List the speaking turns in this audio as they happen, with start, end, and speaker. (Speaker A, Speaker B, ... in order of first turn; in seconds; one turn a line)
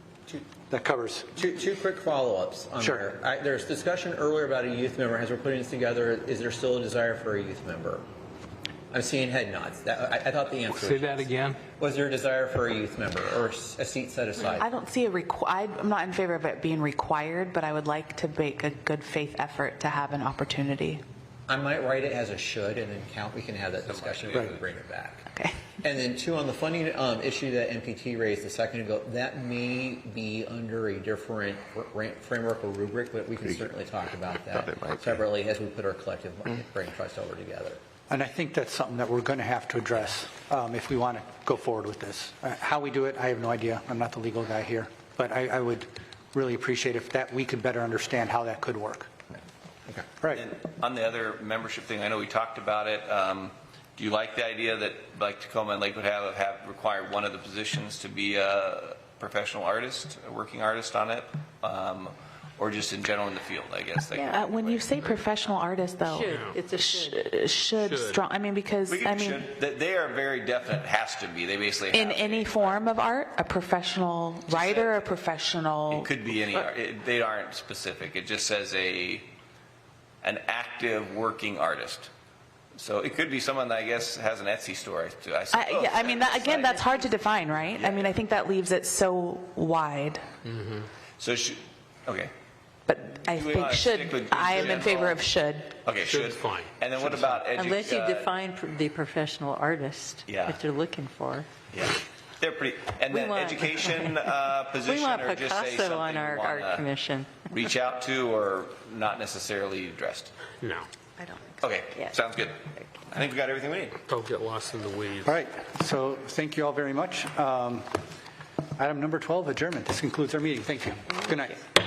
Speaker A: 0.7-1.5
Speaker B: 1.4-8.0
Speaker A: 2.8-3.1
Speaker B: 8.9-11.2
Speaker C: 10.7-11.6
Speaker B: 11.8-14.7
Speaker D: 14.6-21.0
Speaker B: 21.5-25.3
Speaker E: 23.9-24.6
Speaker D: 25.3-25.8
Speaker B: 25.8-37.8
Speaker E: 34.1-35.3
Speaker A: 38.1-49.1
Speaker E: 50.3-64.9
Speaker F: 64.1-64.4
Speaker D: 64.3-69.5
Speaker F: 66.1-67.2
Speaker C: 66.3-66.6
Speaker C: 67.8-68.2
Speaker E: 68.9-72.8
Speaker D: 71.9-76.1
Speaker E: 74.5-75.1
Speaker E: 75.9-79.3
Speaker E: 80.2-82.1
Speaker E: 82.8-86.9
Speaker D: 85.5-90.2
Speaker F: 86.7-87.0
Speaker E: 87.7-88.2
Speaker E: 91.2-92.3
Speaker D: 92.9-95.8
Speaker E: 93.3-95.3
Speaker E: 95.8-98.3
Speaker C: 96.0-97.4
Speaker F: 97.5-101.5
Speaker E: 100.3-100.6
Speaker E: 101.7-106.8
Speaker F: 103.1-104.3
Speaker F: 104.8-107.4
Speaker E: 107.4-110.3
Speaker C: 110.6-110.9
Speaker D: 111.2-111.6
Speaker E: 111.6-114.0
Speaker C: 114.1-115.4
Speaker A: 115.2-118.0
Speaker A: 118.8-121.6